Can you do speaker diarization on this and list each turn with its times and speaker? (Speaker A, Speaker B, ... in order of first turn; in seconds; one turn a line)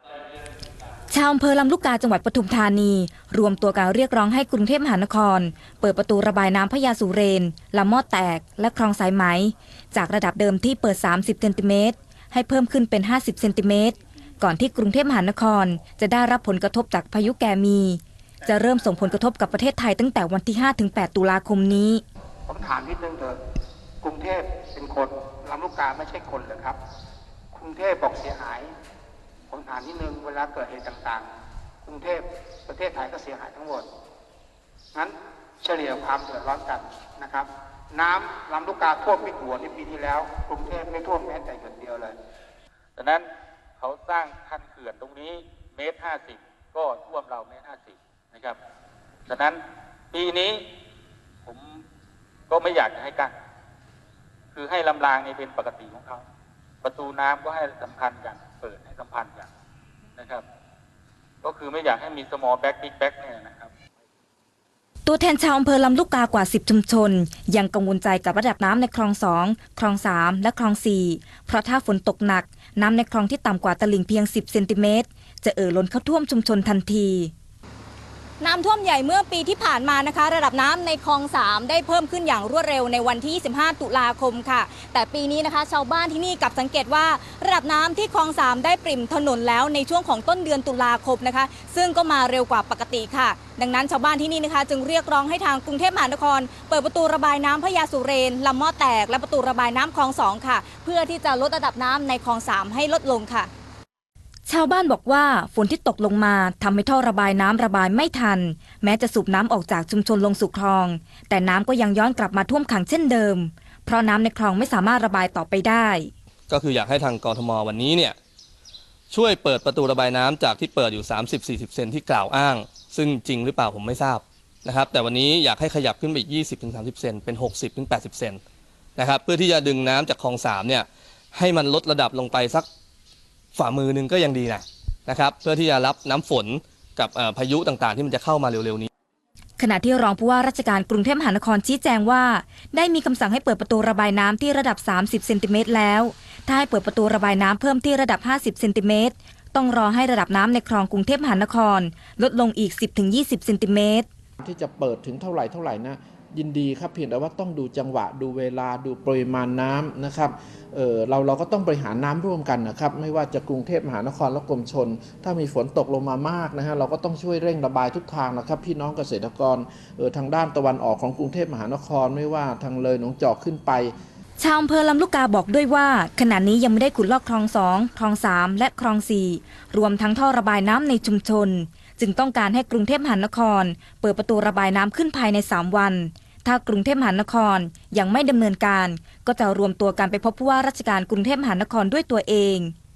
Speaker A: 1.1-22.0
Speaker B: 22.4-23.4
Speaker B: 24.0-26.8
Speaker B: 27.5-28.7
Speaker B: 29.5-31.3
Speaker B: 31.8-33.9
Speaker B: 34.9-42.2
Speaker C: 43.0-43.3
Speaker C: 43.8-48.6
Speaker C: 49.3-49.6
Speaker C: 50.1-50.6
Speaker C: 51.5-51.8
Speaker C: 52.5-53.3
Speaker C: 54.5-56.2
Speaker C: 56.8-59.5
Speaker C: 60.2-60.4
Speaker C: 61.4-63.7
Speaker A: 65.0-77.3
Speaker D: 78.4-103.5
Speaker A: 104.5-116.1
Speaker E: 116.5-118.2
Speaker E: 119.1-128.4
Speaker E: 129.0-132.7
Speaker E: 133.5-138.9
Speaker A: 139.6-154.1
Speaker F: 154.4-173.9
Speaker A: 174.4-192.7